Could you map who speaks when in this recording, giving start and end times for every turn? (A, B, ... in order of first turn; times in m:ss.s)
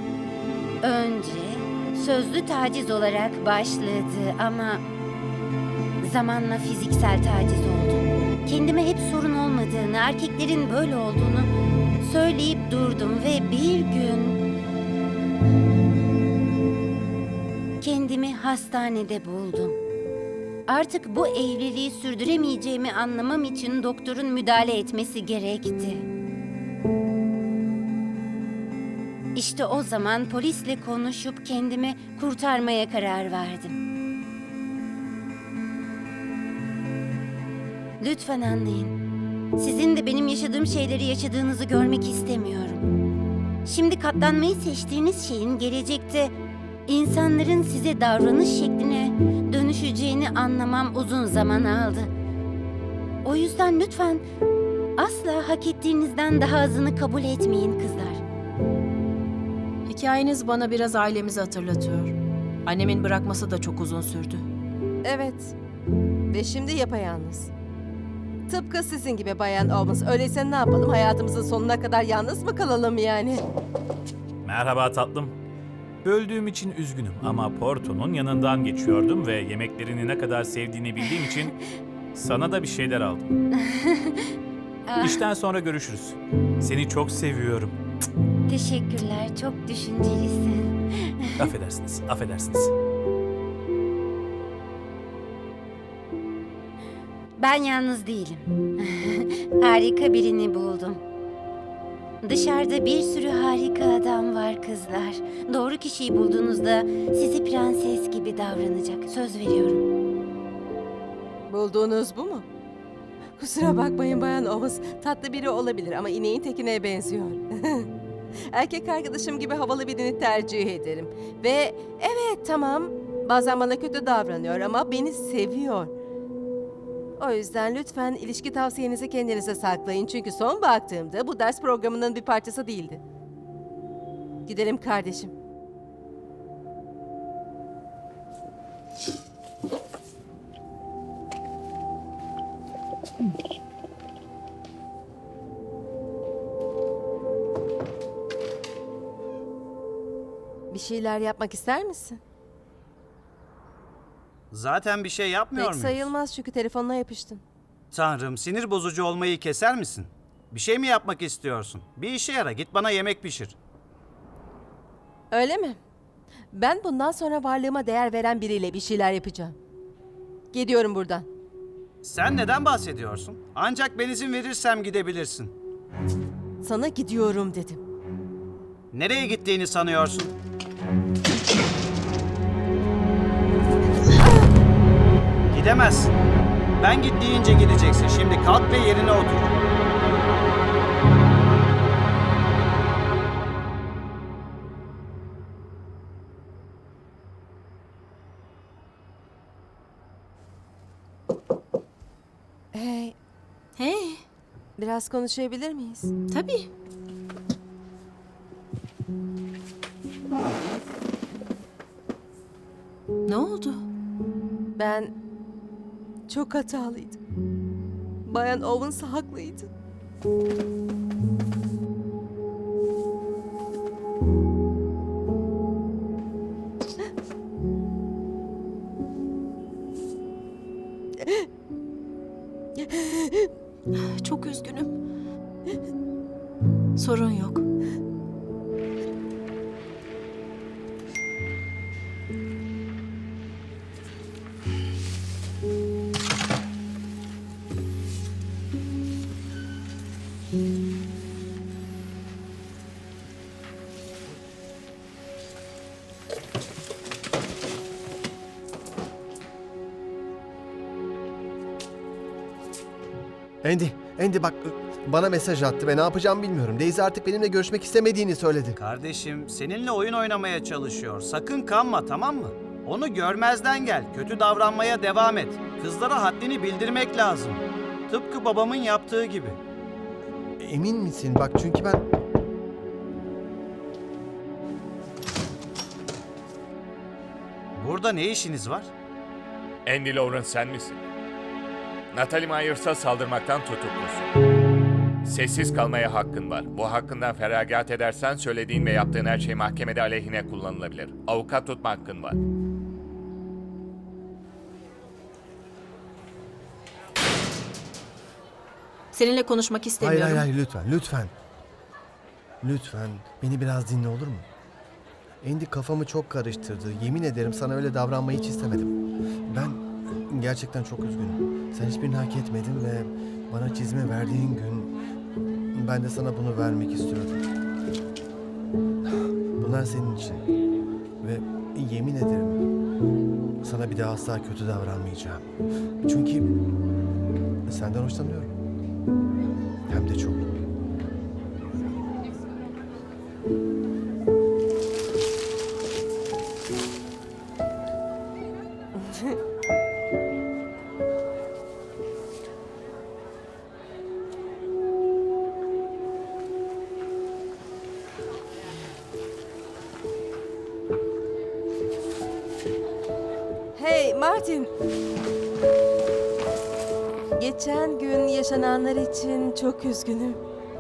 0:00.8-0:04.8 A
0:06.0-0:11.5 A
0:12.0-0:14.4 A
0:17.8-0:19.8 A
0:20.7-0:26.0 A
0:29.3-0:33.8 A
0:38.0-0:39.0 A
0:39.6-0:42.8 A
0:43.6-0:46.3 A
0:46.9-0:52.1 A
0:53.2-0:54.2 A
0:55.0-0:58.2 A
0:59.9-1:04.4 B
1:05.0-1:05.5 C
1:06.3-1:07.5 C
1:08.5-1:13.4 C
1:14.4-1:15.4 D
1:16.0-1:21.5 D
1:22.1-1:23.3 D
1:23.6-1:24.3 A
1:24.9-1:25.2 A
1:25.0-1:27.7 D
1:28.5-1:31.3 A
1:31.4-1:32.7 D
1:37.4-1:41.0 A
1:42.2-1:49.8 A
1:51.5-1:52.4 C
1:53.4-1:57.9 C
1:58.5-2:05.9 C
2:07.2-2:13.0 C
2:14.4-2:15.3 C
2:30.7-2:32.2 C
2:34.5-2:36.1 E
2:35.6-2:37.4 C
2:37.9-2:43.6 E
2:45.3-2:45.8 C
2:46.5-2:49.6 C
2:50.5-2:51.3 C
2:52.0-2:55.5 E
2:56.6-2:57.8 C
2:58.9-3:00.3 E
3:05.5-3:06.1 E
3:06.8-3:09.6 E
3:22.7-3:23.1 C
3:23.8-3:24.2 B
3:24.8-3:26.1 C
3:26.3-3:26.7 B
3:33.3-3:33.8 B
3:34.8-3:35.1 C
3:36.3-3:37.2 C
3:38.2-3:39.7 C
3:51.2-3:51.5 C
3:52.8-3:53.5 C
3:53.9-3:54.9 B
3:57.0-3:57.6 B
4:23.6-4:28.8 F
4:28.8-4:39.6 E
4:40.6-4:42.0 F
4:47.8-4:48.9 E
4:49.8-4:51.0 G
4:52.1-4:54.3 G
4:55.2-5:02.4 G
5:09.1-5:10.4 B
5:10.0-5:11.3 F
5:12.6-5:14.5 F
5:15.4-5:19.0 F
5:19.5-5:24.9 F
5:25.7-5:27.4 F
5:29.0-5:30.4 F
5:31.2-5:32.6 F
5:33.6-5:35.4 F
5:36.0-5:36.5 F
5:37.7-5:38.5 F
5:39.9-5:40.5 F
5:49.0-5:49.4 C
6:03.7-6:04.7 C
6:07.4-6:10.4 C